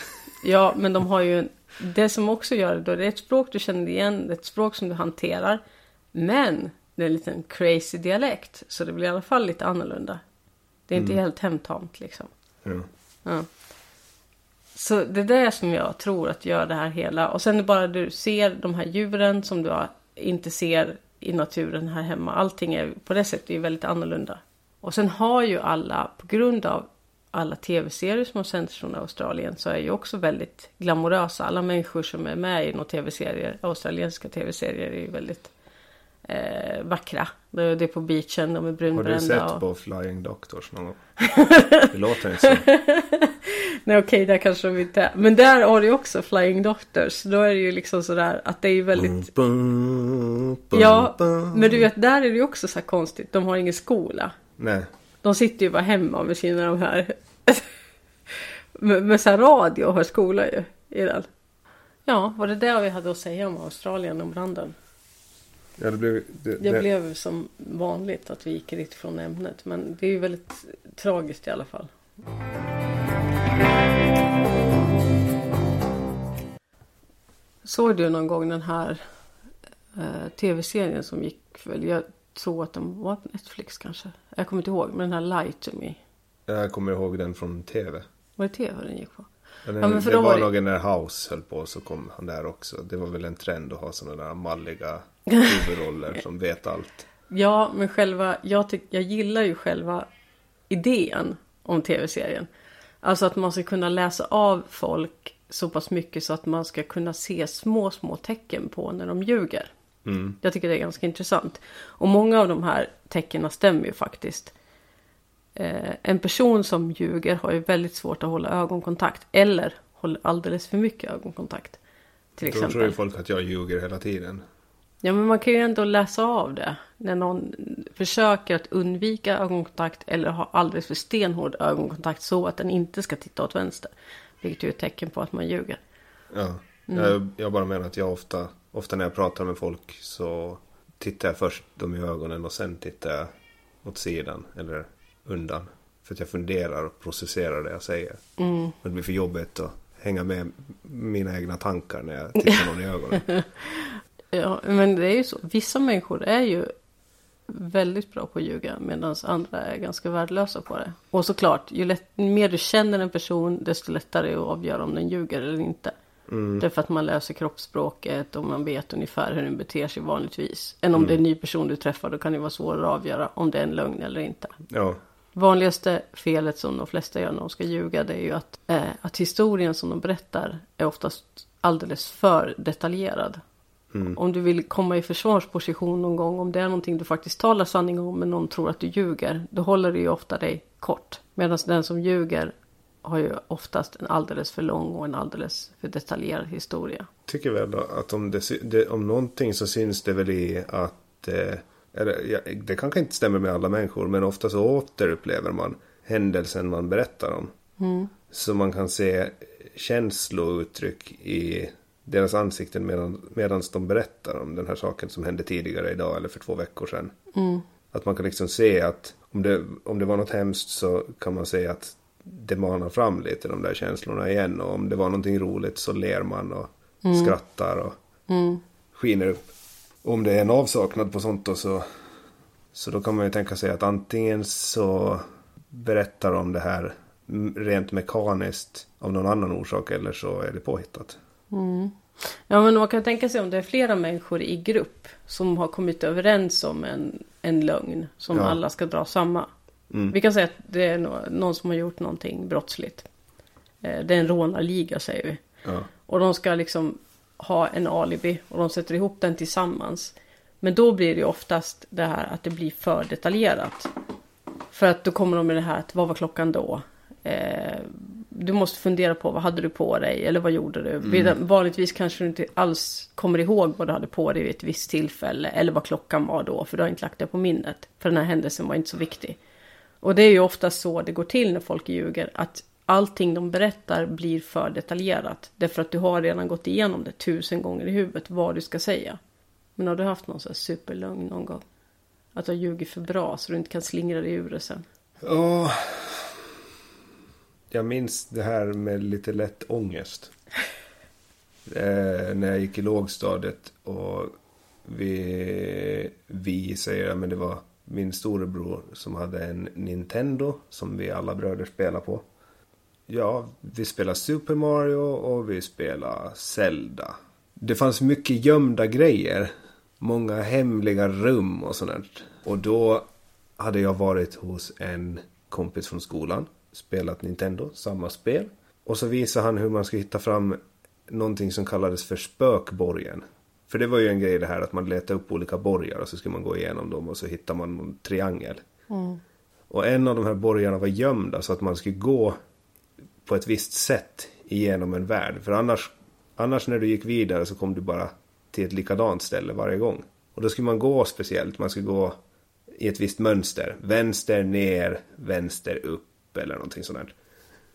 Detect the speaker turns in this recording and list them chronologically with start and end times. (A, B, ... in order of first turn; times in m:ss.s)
0:00.4-0:05.6 A
0:06.1-0:10.2 A
0:10.9-0:12.3 A
0:10.9-0:11.2 B
0:14.7-0:35.5 A
0:36.2-0:39.6 A
0:38.9-0:41.0 B
0:41.2-0:41.9 A
0:41.9-0:42.7 B
0:42.4-0:49.3 A
0:49.0-0:51.8 B
0:50.7-0:54.4 A
0:54.6-0:54.9 B
0:55.2-0:57.6 A
0:58.3-1:01.3 A
1:02.0-1:04.8 A
1:05.8-1:06.9 B
1:06.6-1:11.9 A
1:17.6-1:19.0 A
1:19.9-1:26.0 A
1:26.5-1:28.0 B
1:28.4-1:29.3 A
1:29.6-1:37.0 B
1:29.8-1:30.5 A
1:37.3-1:40.1 A
1:40.7-1:42.5 A
1:43.0-1:49.7 A
1:50.0-1:50.4 B
1:50.4-1:54.5 A
1:55.6-2:01.8 A
2:02.4-2:03.0 A
2:02.4-2:04.4 B
2:05.0-2:15.8 A
2:16.3-2:23.3 B
2:16.9-2:17.1 A
2:23.8-2:28.2 B
2:28.4-2:28.7 A
2:28.8-2:33.2 B
2:33.2-2:36.7 A
2:37.5-2:45.9 A
2:46.3-2:46.6 B
2:46.6-2:54.5 A
2:54.7-2:55.0 B
2:55.3-3:03.4 A
3:03.9-3:04.2 B
3:04.1-3:12.5 A
3:13.0-3:17.1 A
3:17.3-3:27.5 B
3:27.8-3:28.1 A
3:28.3-3:37.1 B
3:37.3-3:37.6 A
3:37.9-3:48.0 B
3:47.0-3:47.3 A
3:48.3-3:48.6 A
3:48.9-3:49.4 B
3:50.0-3:51.9 B
3:52.7-4:01.2 B
4:01.5-4:09.5 A
4:08.3-4:08.6 B
4:10.1-4:13.1 A
4:13.8-4:15.4 A
4:16.0-4:23.9 A
4:24.7-4:39.4 A
4:31.0-4:31.3 B
4:40.0-4:49.2 A
4:49.8-4:51.6 A
4:52.3-4:54.8 A
4:55.2-4:56.3 B
4:57.7-5:00.3 B
5:01.7-5:12.2 B
5:13.1-5:23.1 B
5:23.6-5:38.6 B
5:38.9-5:39.2 A
5:39.7-5:42.4 B
5:43.2-5:52.2 B
5:52.7-5:57.1 B